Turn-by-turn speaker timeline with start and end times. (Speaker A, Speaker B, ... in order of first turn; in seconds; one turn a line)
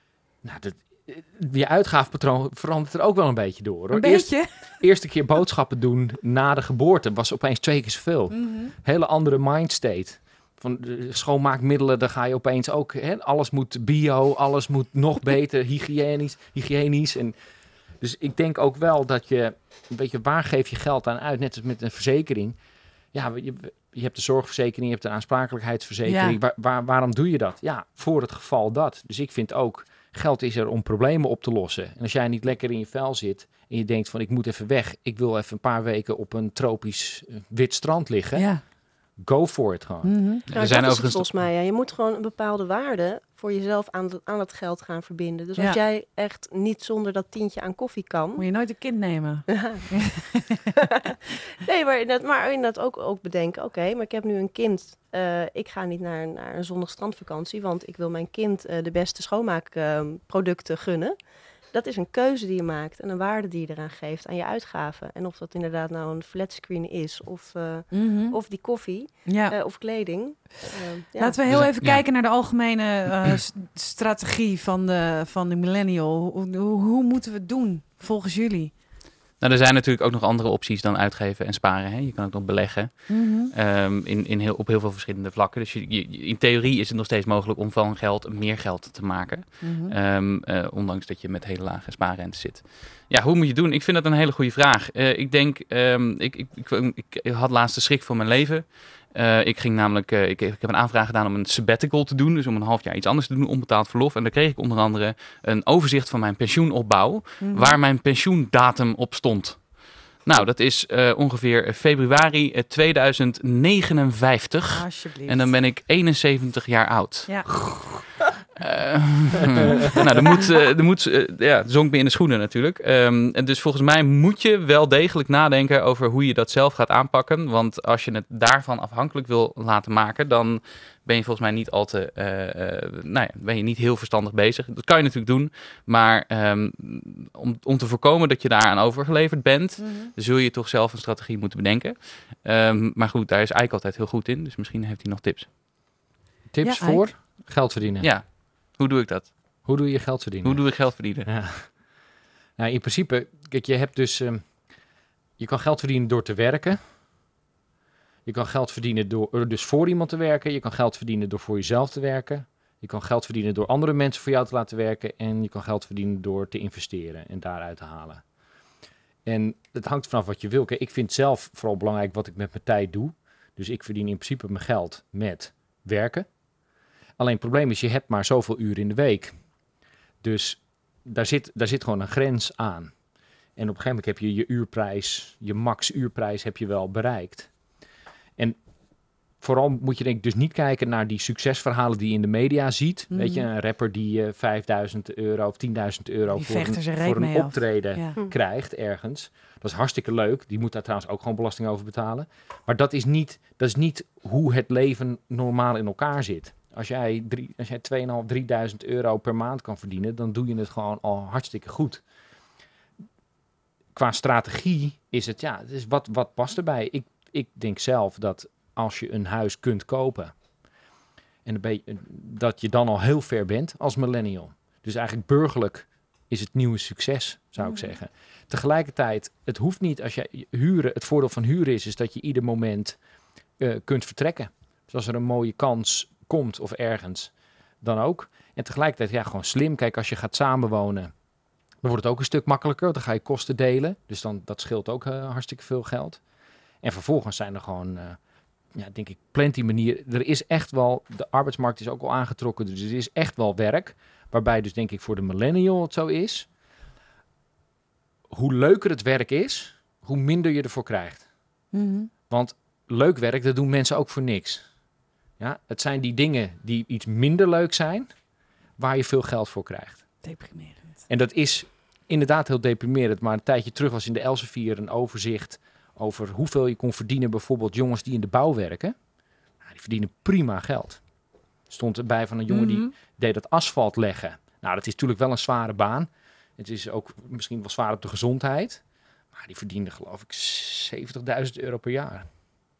Speaker A: 0.4-17.3
Speaker B: 3.9-4.8
Speaker B: 8.3-8.7
Speaker A: 18.0-22.6
Speaker A: 23.1-38.5
Speaker B: 26.1-26.4
Speaker B: 38.3-38.6
Speaker A: 39.2-40.1
Speaker B: 40.0-40.4
Speaker C: 40.5-41.4
Speaker D: 40.5-48.4
Speaker B: 48.4-50.6
Speaker D: 49.5-49.9
Speaker D: 50.8-71.4
Speaker B: 67.9-68.4
Speaker B: 69.2-69.5
Speaker B: 71.2-78.7
Speaker C: 71.5-72.0
Speaker C: 79.4-117.9
Speaker B: 83.1-83.5
Speaker B: 89.6-89.9
Speaker B: 107.4-107.8
Speaker B: 114.7-115.5
Speaker C: 118.5-145.5
Speaker B: 139.8-140.1
Speaker A: 146.5-148.1
Speaker B: 146.6-147.1
Speaker C: 148.0-149.3
Speaker A: 149.7-151.7
Speaker C: 150.4-151.3
Speaker A: 152.6-154.4
Speaker A: 155.4-156.8
Speaker A: 158.2-168.2
Speaker A: 169.2-176.3
Speaker A: 177.2-179.3
Speaker A: 180.2-182.9
Speaker A: 183.6-187.5
Speaker A: 189.4-212.0
Speaker B: 193.1-193.5
Speaker B: 196.3-198.2
Speaker A: 213.9-220.3
Speaker A: 221.4-233.0
Speaker A: 233.6-237.3
Speaker A: 237.8-241.1
Speaker A: 241.8-246.2
Speaker A: 246.8-248.2
Speaker A: 248.7-256.5
Speaker A: 258.3-261.2
Speaker B: 261.7-262.1
Speaker A: 262.3-264.6
Speaker A: 265.4-268.1
Speaker A: 268.8-270.0
Speaker B: 270.2-271.0
Speaker A: 271.1-278.9
Speaker A: 279.6-281.0
Speaker A: 281.7-292.3
Speaker B: 282.5-282.9